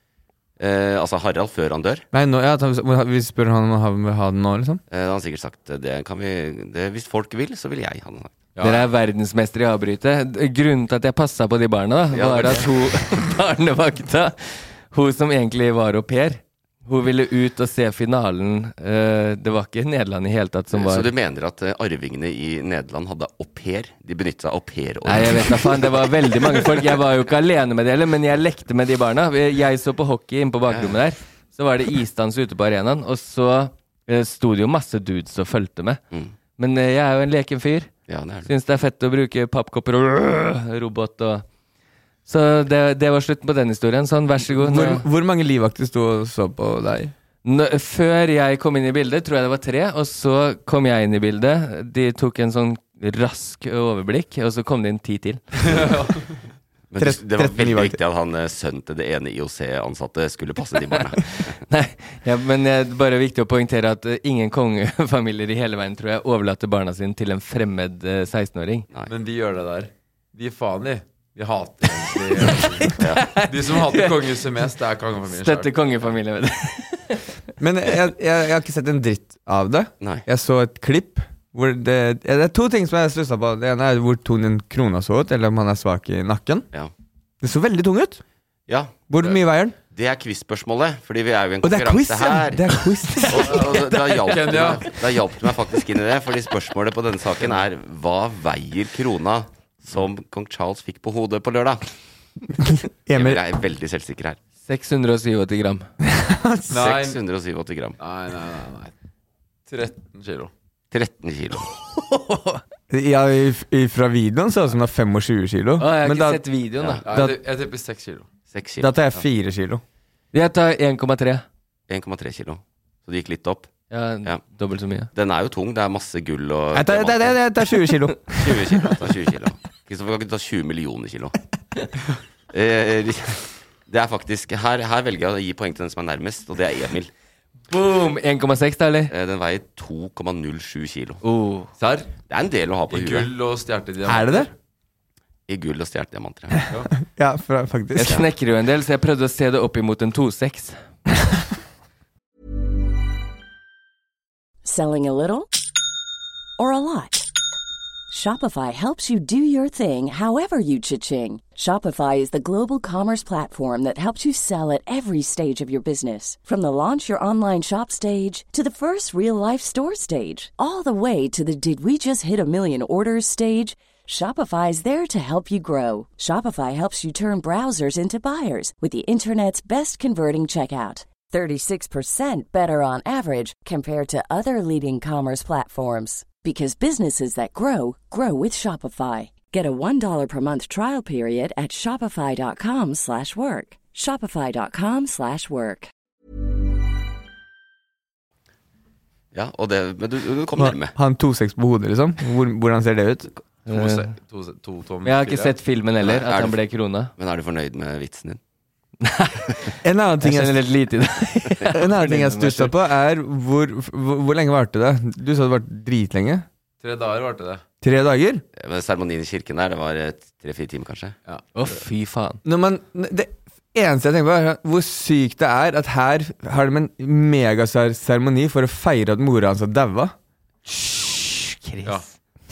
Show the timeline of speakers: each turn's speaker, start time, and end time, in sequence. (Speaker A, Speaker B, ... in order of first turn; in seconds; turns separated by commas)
Speaker A: 0.6-2.0, Speaker B: 2.1-4.8, Speaker A: 4.9-8.4, Speaker C: 8.5-8.8, Speaker D: 8.6-21.1, Speaker A: 12.1-12.7, Speaker A: 20.7-26.6, Speaker D: 25.0-36.0, Speaker A: 30.7-30.9, Speaker D: 36.6-37.9, Speaker A: 38.1-38.5, Speaker D: 38.4-41.5, Speaker D: 42.2-45.1, Speaker B: 44.5-47.1, Speaker D: 47.4-55.4, Speaker C: 55.6-56.3, Speaker A: 56.9-61.6, Speaker B: 57.0-58.0, Speaker D: 60.9-68.9, Speaker C: 69.1-75.7, Speaker D: 72.6-74.3, Speaker A: 73.0-73.3, Speaker D: 75.3-77.3, Speaker B: 77.6-86.7, Speaker B: 87.4-88.2, Speaker A: 88.7-89.0, Speaker B: 89.1-89.7, Speaker A: 89.9-92.7, Speaker B: 91.6-93.7, Speaker D: 93.1-94.7, Speaker A: 93.3-101.9, Speaker C: 94.3-94.9, Speaker B: 102.6-103.4, Speaker A: 103.1-104.4, Speaker D: 104.7-105.9, Speaker B: 106.1-106.8, Speaker C: 106.7-107.2, Speaker A: 106.7-108.0, Speaker C: 108.0-108.9, Speaker C: 109.7-110.5, Speaker A: 110.9-111.7, Speaker D: 111.9-112.6, Speaker B: 112.9-116.4, Speaker D: 115.8-117.0, Speaker C: 117.0-118.3, Speaker B: 117.1-117.3, Speaker A: 118.5-119.0, Speaker B: 118.8-119.8, Speaker D: 120.3-121.4, Speaker A: 121.9-123.7, Speaker D: 123.9-125.1, Speaker A: 125.1-127.4, Speaker B: 126.7-128.8, Speaker A: 128.3-131.3, Speaker A: 132.5-137.1, Speaker D: 137.7-139.1, Speaker A: 139.1-141.2, Speaker D: 141.2-141.7, Speaker C: 141.8-142.1, Speaker A: 142.3-143.3, Speaker C: 142.9-144.5, Speaker B: 144.0-144.5, Speaker A: 145.5-146.7, Speaker B: 147.1-148.2, Speaker D: 147.9-150.8, Speaker E: 154.6-155.5, Speaker E: 156.6-157.3, Speaker E: 158.1-195.9, Speaker A: 199.3-200.9, Speaker B: 200.6-203.3, Speaker D: 203.7-204.1, Speaker C: 203.7-205.5, Speaker D: 205.0-207.1, Speaker A: 206.0-206.6, Speaker A: 207.2-208.4, Speaker D: 209.0-212.7, Speaker B: 209.8-210.6, Speaker B: 211.7-216.4, Speaker C: 216.8-217.6, Speaker B: 217.8-218.4, Speaker A: 218.6-221.2, Speaker D: 221.5-222.4, Speaker B: 222.4-230.1, Speaker D: 230.7-232.0